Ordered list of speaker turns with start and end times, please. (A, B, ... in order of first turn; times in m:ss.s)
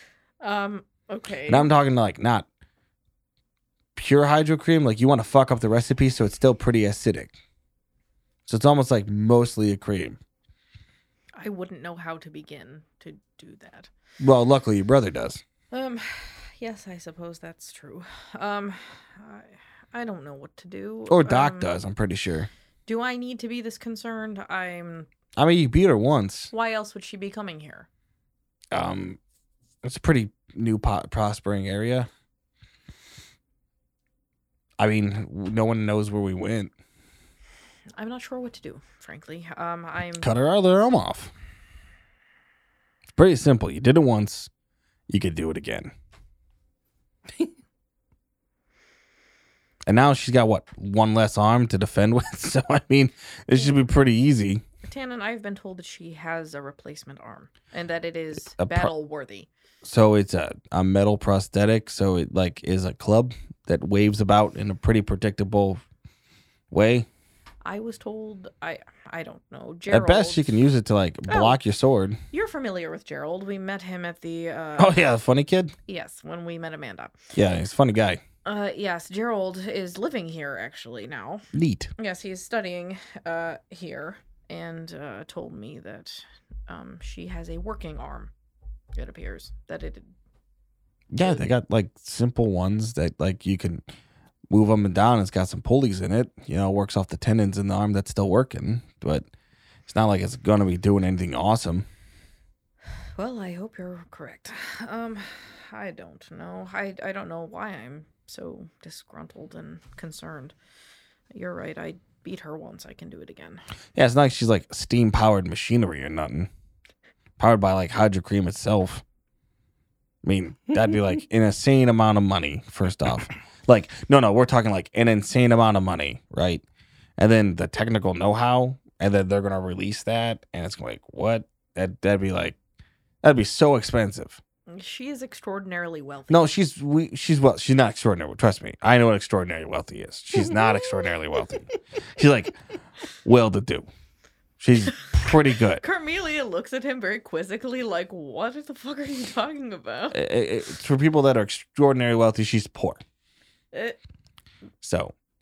0:00.4-0:01.7 A
0:01.5-0:02.4 B
0:04.0-0:07.4 B
0:08.5-0:10.2 B
0:11.4-0:13.9 A
0:14.2-0:15.4 B
0:15.7-0:21.7 A
0:21.1-0:22.5 B
0:22.8-0:25.1 A
0:25.4-0:26.5 B
0:26.5-0:27.9 A
0:28.7-0:29.2 B
0:29.8-0:32.1 B
0:34.8-0:36.7 B
0:38.0-0:40.3 A
0:40.2-0:41.3 B
0:43.2-0:44.5 B
0:45.1-0:45.9 B
0:49.9-0:54.6 B
0:54.8-0:59.5 A
0:58.5-0:58.9 B
0:59.8-1:05.8 B
1:06.7-1:07.1 B
1:07.6-1:10.5 A
1:09.9-1:12.2 B
1:11.3-1:11.6 A
1:12.3-1:15.1 A
1:14.8-1:15.7 B
1:15.9-1:17.2 A
1:17.3-1:18.2 B
1:18.4-1:21.5 A
1:21.5-1:21.9 B
1:22.0-1:28.3 A
1:29.0-1:30.1 A
1:31.1-1:33.8 B
1:34.5-1:39.3 B
1:39.9-1:41.9 B
1:43.2-1:50.5 A
1:51.3-1:53.6 A
1:53.9-1:56.5 B
1:57.4-1:59.0 B
2:00.2-2:06.6 B
2:07.2-2:12.6 B
2:13.2-2:14.4 B
2:14.7-2:16.6 A
2:16.3-2:21.6 B
2:22.2-2:22.6 B
2:23.2-2:23.9 B
2:24.6-2:25.8 B
2:25.1-2:30.2 A
2:30.1-2:33.0 B
2:33.7-2:34.0 A
2:34.8-2:35.1 B